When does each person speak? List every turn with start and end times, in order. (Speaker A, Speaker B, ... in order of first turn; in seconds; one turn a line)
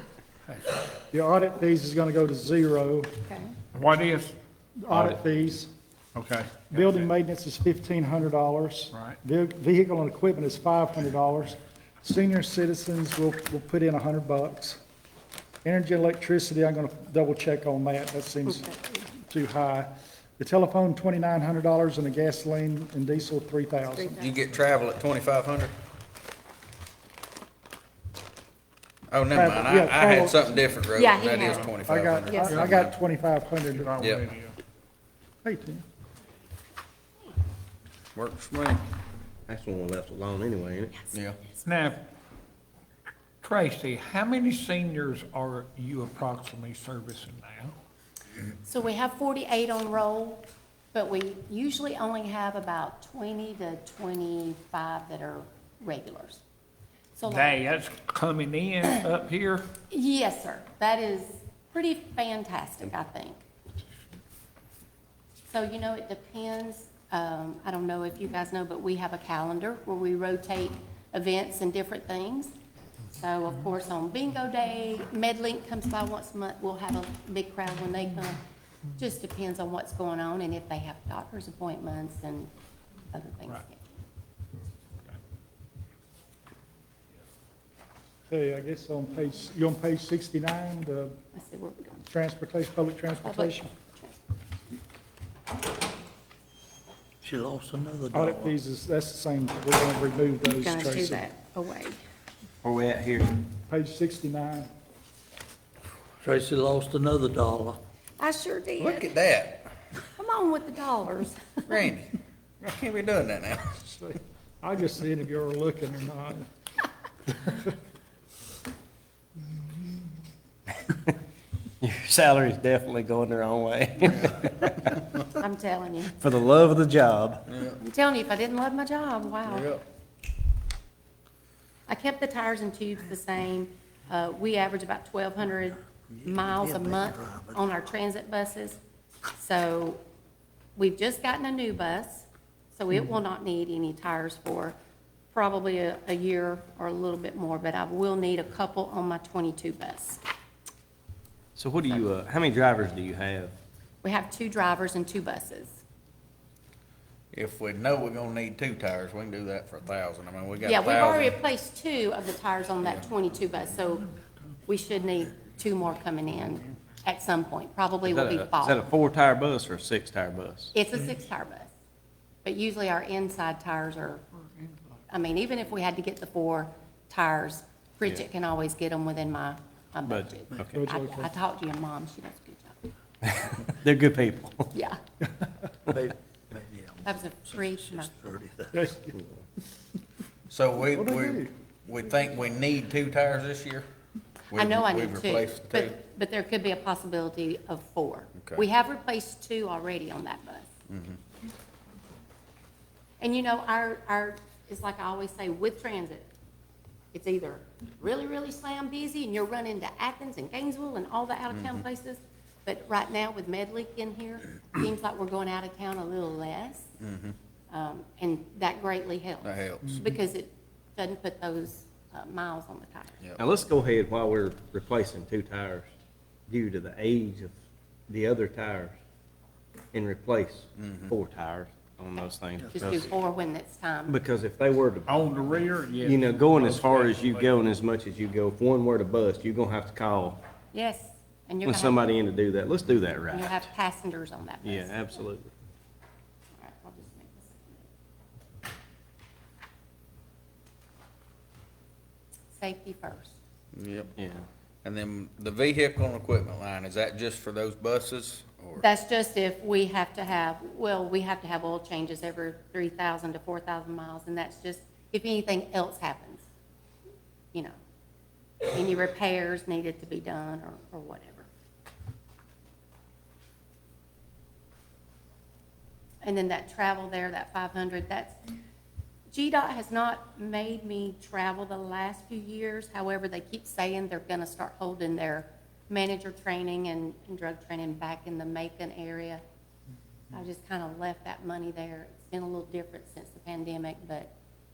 Speaker A: 0.5-0.7
Speaker B: 1.1-3.1
Speaker C: 3.3-3.5
Speaker A: 3.7-4.3
Speaker B: 4.8-5.7
Speaker A: 4.9-5.2
Speaker A: 6.2-6.9
Speaker B: 6.7-14.8
Speaker B: 15.6-24.2
Speaker C: 23.9-24.3
Speaker D: 24.2-25.7
Speaker D: 29.1-32.9
Speaker B: 29.3-30.5
Speaker C: 30.9-31.7
Speaker B: 31.9-34.0
Speaker C: 32.2-32.6
Speaker A: 33.7-34.5
Speaker D: 34.0-34.3
Speaker B: 35.4-35.8
Speaker D: 38.1-38.8
Speaker E: 39.5-40.9
Speaker D: 41.1-41.4
Speaker A: 41.6-42.0
Speaker A: 43.4-47.8
Speaker C: 48.6-56.4
Speaker C: 57.1-57.6
Speaker A: 57.3-59.7
Speaker C: 59.9-63.4
Speaker C: 65.5-72.5
Speaker C: 73.1-78.4
Speaker C: 79.0-82.5
Speaker C: 83.1-83.8
Speaker B: 88.3-91.1
Speaker C: 91.3-92.0
Speaker B: 92.1-93.7
Speaker C: 93.2-94.1
Speaker F: 97.2-98.5
Speaker B: 98.1-101.2
Speaker C: 100.5-102.0
Speaker E: 102.6-103.4
Speaker B: 103.7-104.7
Speaker F: 106.2-107.8
Speaker C: 108.2-109.1
Speaker D: 108.8-109.7
Speaker C: 110.2-111.8
Speaker D: 111.7-113.8
Speaker B: 113.8-116.5
Speaker E: 121.8-124.9
Speaker C: 125.3-126.2
Speaker E: 126.2-127.5
Speaker D: 127.5-127.8
Speaker C: 127.8-129.7
Speaker D: 129.5-129.8
Speaker C: 131.9-138.8
Speaker C: 139.3-140.0
Speaker C: 140.8-144.7
Speaker C: 145.3-150.2
Speaker E: 151.6-153.5
Speaker C: 154.0-155.8
Speaker D: 157.3-161.3
Speaker C: 160.6-164.1
Speaker C: 164.7-168.9
Speaker E: 168.0-170.7
Speaker C: 170.7-171.7
Speaker C: 172.4-174.2
Speaker C: 175.1-182.8
Speaker E: 180.1-180.8
Speaker B: 180.7-181.3
Speaker E: 183.2-184.7
Speaker C: 184.7-185.0
Speaker F: 185.9-187.0
Speaker C: 187.0-188.4
Speaker F: 188.0-188.7
Speaker B: 188.7-189.1
Speaker D: 190.5-193.9
Speaker B: 190.9-191.5
Speaker D: 194.5-196.0
Speaker C: 194.5-200.7
Speaker D: 200.9-201.2
Speaker C: 203.2-206.3
Speaker C: 207.1-216.9
Speaker D: 217.0-217.3
Speaker C: 217.7-223.2
Speaker D: 219.4-220.0
Speaker E: 223.4-225.8
Speaker E: 226.5-227.5
Speaker E: 228.1-228.9
Speaker E: 229.9-233.1
Speaker D: 230.8-231.1
Speaker C: 232.7-234.1
Speaker E: 234.1-235.2
Speaker A: 235.1-237.5
Speaker E: 236.0-240.4
Speaker C: 240.7-242.0
Speaker E: 241.6-243.6
Speaker C: 243.3-245.0
Speaker E: 244.6-245.5
Speaker C: 246.6-247.8
Speaker C: 252.5-253.3
Speaker D: 253.7-254.1
Speaker E: 254.2-254.4
Speaker D: 254.8-258.9
Speaker C: 258.8-266.4
Speaker C: 268.7-271.5
Speaker C: 276.2-278.4
Speaker C: 279.3-289.4
Speaker C: 290.3-294.3